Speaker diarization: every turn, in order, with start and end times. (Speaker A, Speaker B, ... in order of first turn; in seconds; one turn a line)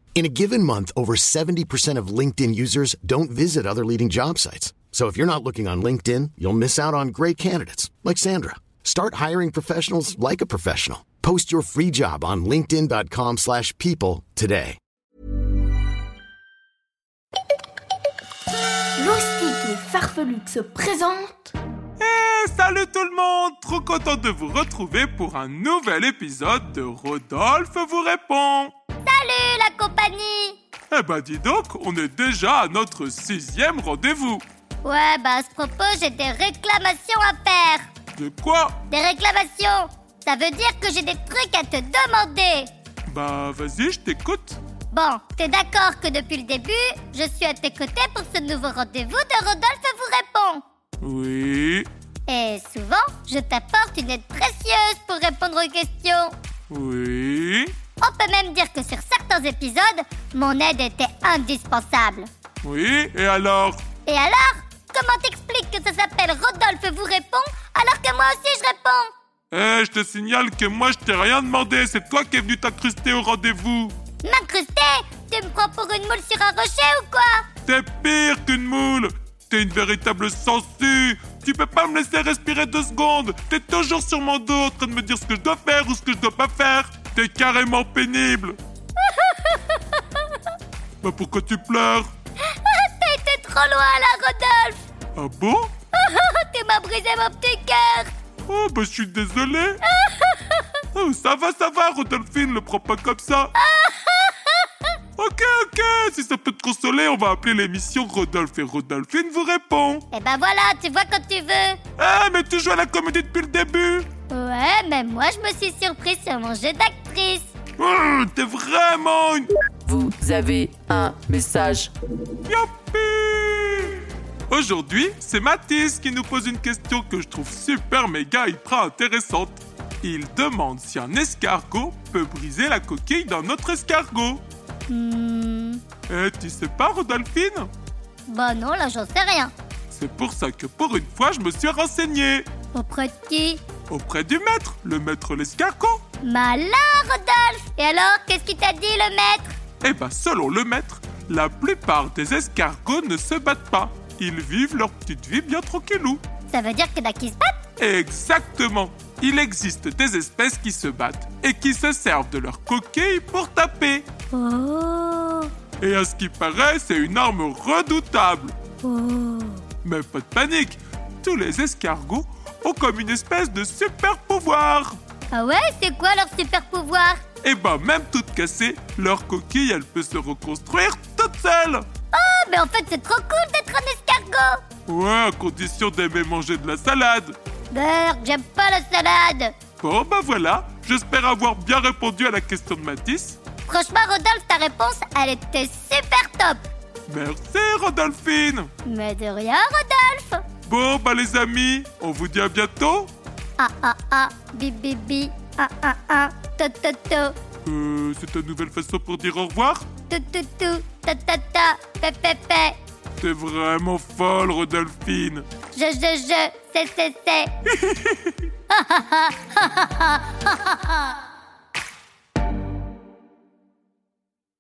Speaker A: 0.1-14.8
Speaker B: 19.0-21.6
Speaker C: 22.0-28.7
Speaker D: 29.1-30.6
Speaker C: 30.9-34.4
Speaker D: 34.8-37.9
Speaker C: 38.2-38.8
Speaker D: 38.9-42.7
Speaker C: 43.1-44.6
Speaker D: 44.9-50.6
Speaker C: 51.0-51.9
Speaker D: 52.3-56.3
Speaker C: 56.7-57.7
Speaker D: 58.0-62.3
Speaker C: 62.6-63.8
Speaker D: 64.1-69.1
Speaker C: 69.5-74.0
Speaker D: 74.2-77.5
Speaker C: 77.7-88.6
Speaker D: 89.0-90.3
Speaker C: 91.0-92.1
Speaker D: 92.4-94.8
Speaker C: 95.2-95.7
Speaker D: 95.9-98.1
Speaker C: 98.5-99.8
Speaker D: 99.9-100.7
Speaker C: 100.9-103.5
Speaker D: 103.6-104.9
Speaker C: 105.2-110.0
Speaker D: 110.1-111.8
Speaker C: 112.0-114.1
Speaker D: 114.3-117.5
Speaker C: 117.8-119.5
Speaker E: 119.8-121.9
Speaker C: 122.5-134.4
Speaker D: 134.9-135.8
Speaker C: 136.1-137.7
Speaker D: 138.3-139.5
Speaker C: 139.9-142.5
Speaker D: 142.7-143.6
Speaker C: 143.9-146.0
Speaker D: 146.2-149.5
Speaker C: 149.8-156.2
Speaker D: 156.5-157.6
Speaker C: 157.8-164.1
Speaker D: 164.3-165.5
Speaker C: 165.8-168.6
Speaker D: 168.8-169.6
Speaker C: 169.8-175.0
Speaker D: 175.3-177.2
Speaker C: 177.4-181.9
Speaker D: 182.1-184.6
Speaker C: 184.9-187.4
Speaker D: 187.7-189.5
Speaker C: 189.8-193.4
Speaker D: 193.7-196.6
Speaker C: 197.1-198.7
Speaker D: 198.9-200.4
Speaker C: 200.7-203.1
Speaker D: 203.6-207.3
Speaker C: 207.7-209.9
Speaker D: 210.1-212.8
Speaker C: 213.2-215.5
Speaker D: 215.8-217.5
Speaker C: 217.8-218.3
Speaker D: 218.7-221.2